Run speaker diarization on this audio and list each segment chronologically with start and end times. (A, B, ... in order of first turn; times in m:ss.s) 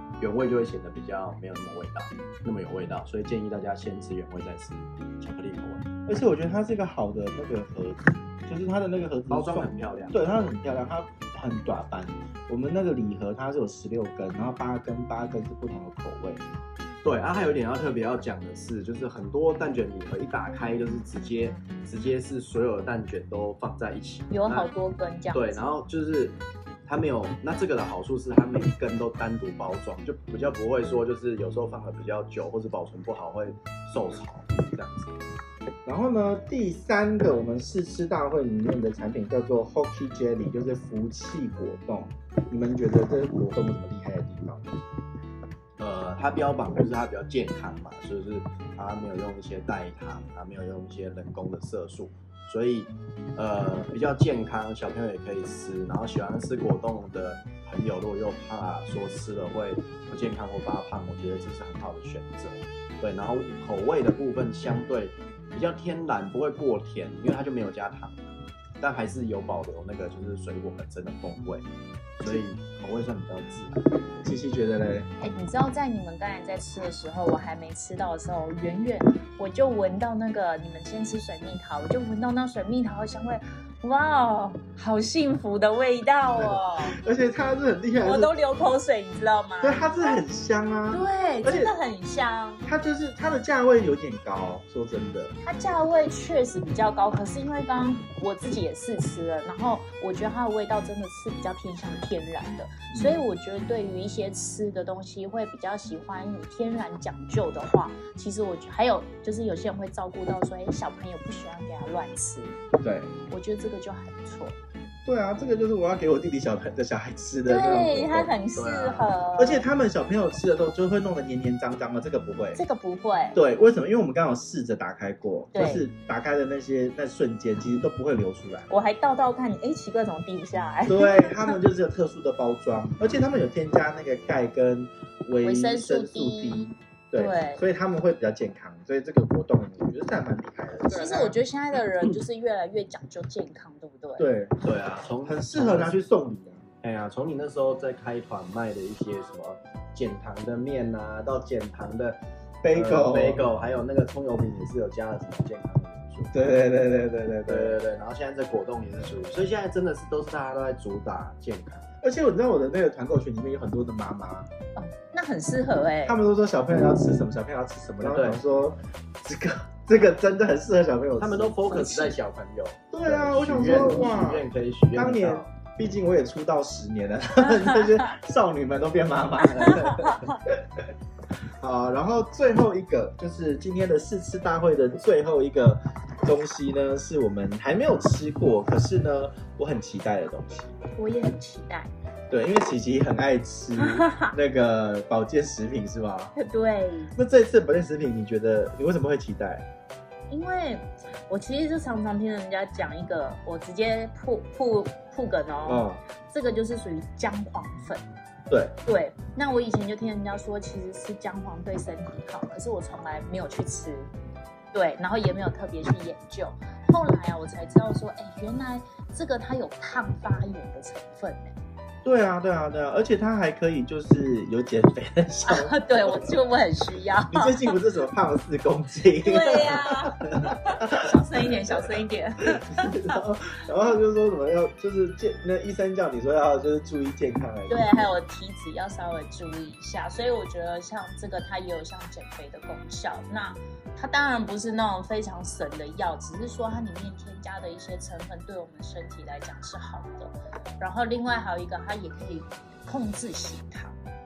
0:00.2-0:05.9 A
0:06.0-0:16.4 B
0:09.3-0:10.2 A
0:17.0-0:24.7 A
0:24.3-0:25.6 C
0:25.3-0:35.1 A
0:35.8-0:44.7 B
0:45.8-1:08.3 A
1:08.8-1:11.6 A
1:12.2-1:13.8 A
1:14.2-1:15.1 B
1:15.2-1:26.9 C
1:26.3-1:28.3 B
1:28.0-1:30.2 C
1:29.6-1:31.7 B
1:30.9-1:32.6 C
1:32.6-1:35.3 B
1:35.4-1:52.6 C
1:42.9-1:43.2 B
1:52.8-1:53.1 B
1:53.3-1:54.6 C
1:55.0-1:58.3 B
1:57.4-1:59.7 C
1:58.5-1:59.1 A
1:59.4-2:02.6 B
2:02.5-2:03.4 C
2:03.3-2:08.7 B
2:05.5-2:05.9 C
2:08.7-2:11.6 C
2:10.9-2:21.4 B
2:15.4-2:17.6 C
2:20.9-2:24.3 C
2:24.2-2:24.6 B
2:24.6-2:26.0 A
2:25.2-2:26.6 B
2:26.8-2:32.2 A
2:32.6-2:33.5 B
2:32.7-2:36.4 A
2:36.3-2:37.8 B
2:37.4-2:41.8 A
2:42.0-2:44.5 B
2:44.8-2:46.2 C
2:46.0-2:51.7 B
2:48.0-2:48.4 A
2:51.2-2:55.5 A
2:51.7-2:52.2 C
2:52.9-3:00.2 B
2:59.6-3:00.3 A
3:01.6-3:10.8 B
3:10.9-3:11.9 C
3:12.3-3:16.3 B
3:13.8-3:14.3 C
3:16.4-3:17.1 C
3:17.2-3:19.6 B
3:20.3-3:28.0 C
3:25.6-3:26.0 B
3:28.5-3:28.8 B
3:28.8-3:34.1 C
3:34.7-3:41.5 C
3:42.0-3:46.3 B
3:45.4-3:47.7 C
3:47.3-3:51.7 B
3:49.2-3:53.2 C
3:52.6-3:58.1 B
3:57.7-4:14.0 C